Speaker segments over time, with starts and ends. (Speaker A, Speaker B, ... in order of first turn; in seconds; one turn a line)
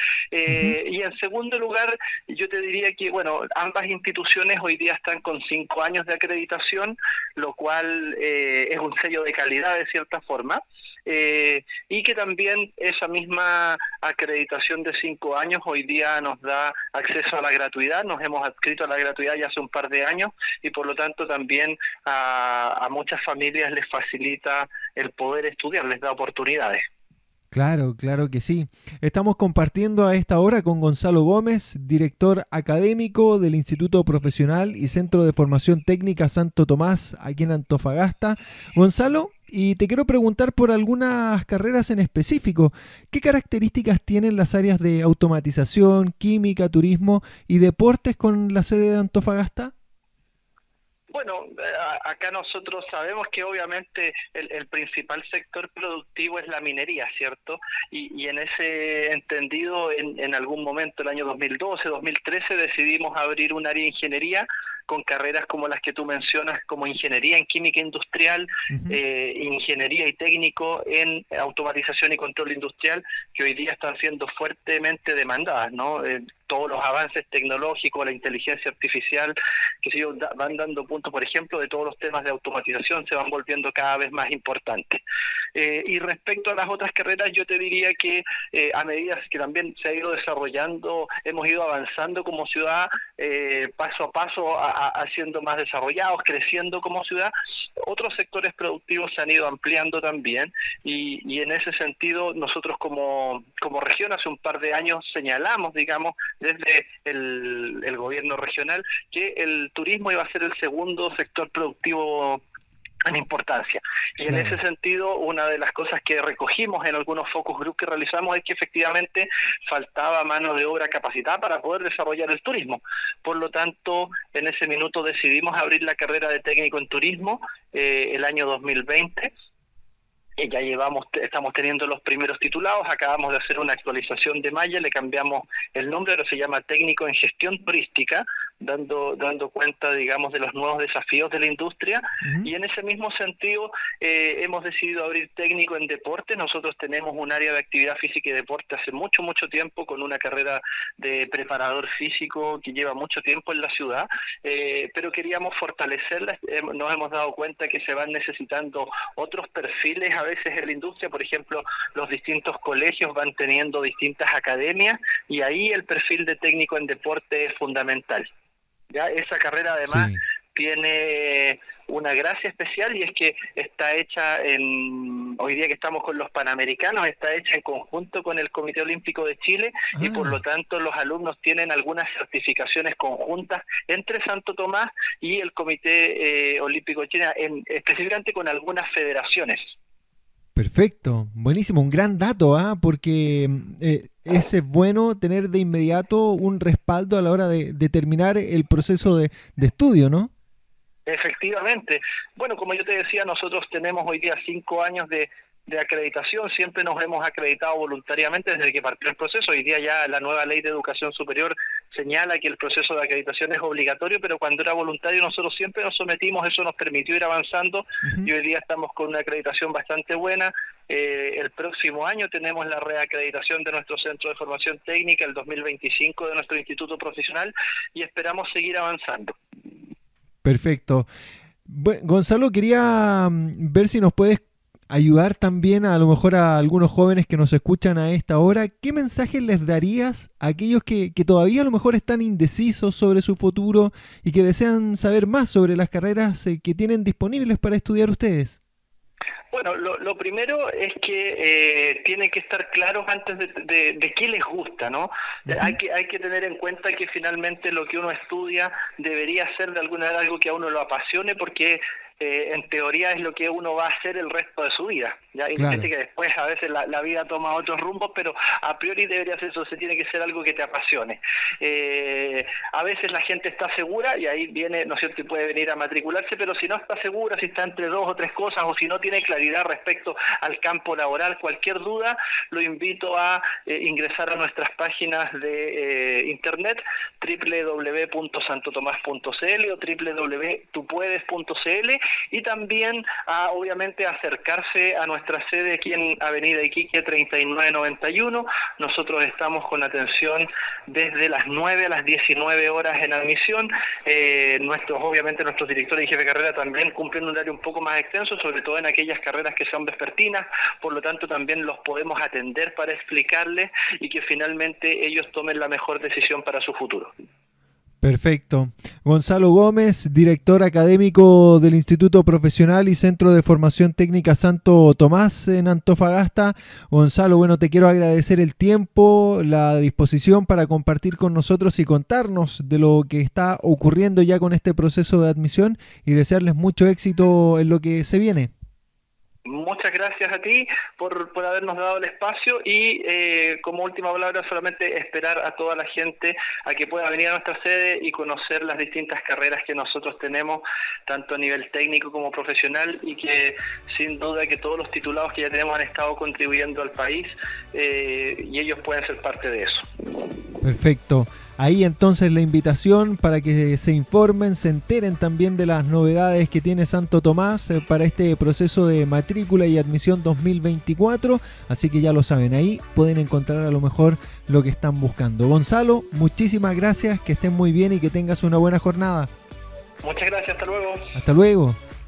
Speaker A: 0.3-26.8
Speaker B: 27.5-49.7
Speaker A: 51.1-85.0
Speaker B: 68.7-69.0
Speaker A: 85.5-112.4
Speaker A: 113.1-129.3
Speaker B: 114.3-114.6
Speaker A: 130.4-168.3
Speaker A: 168.9-189.7
Speaker B: 169.9-170.2
Speaker B: 180.0-180.4
Speaker B: 190.6-200.3
Speaker A: 201.1-229.4
Speaker B: 230.4-231.1
Speaker B: 231.7-248.6
Speaker A: 249.5-317.1
Speaker B: 255.5-255.8
Speaker B: 265.6-265.9
Speaker B: 318.0-338.5
Speaker A: 339.4-359.8
Speaker B: 360.6-379.3
Speaker A: 380.0-381.1
Speaker B: 381.1-381.8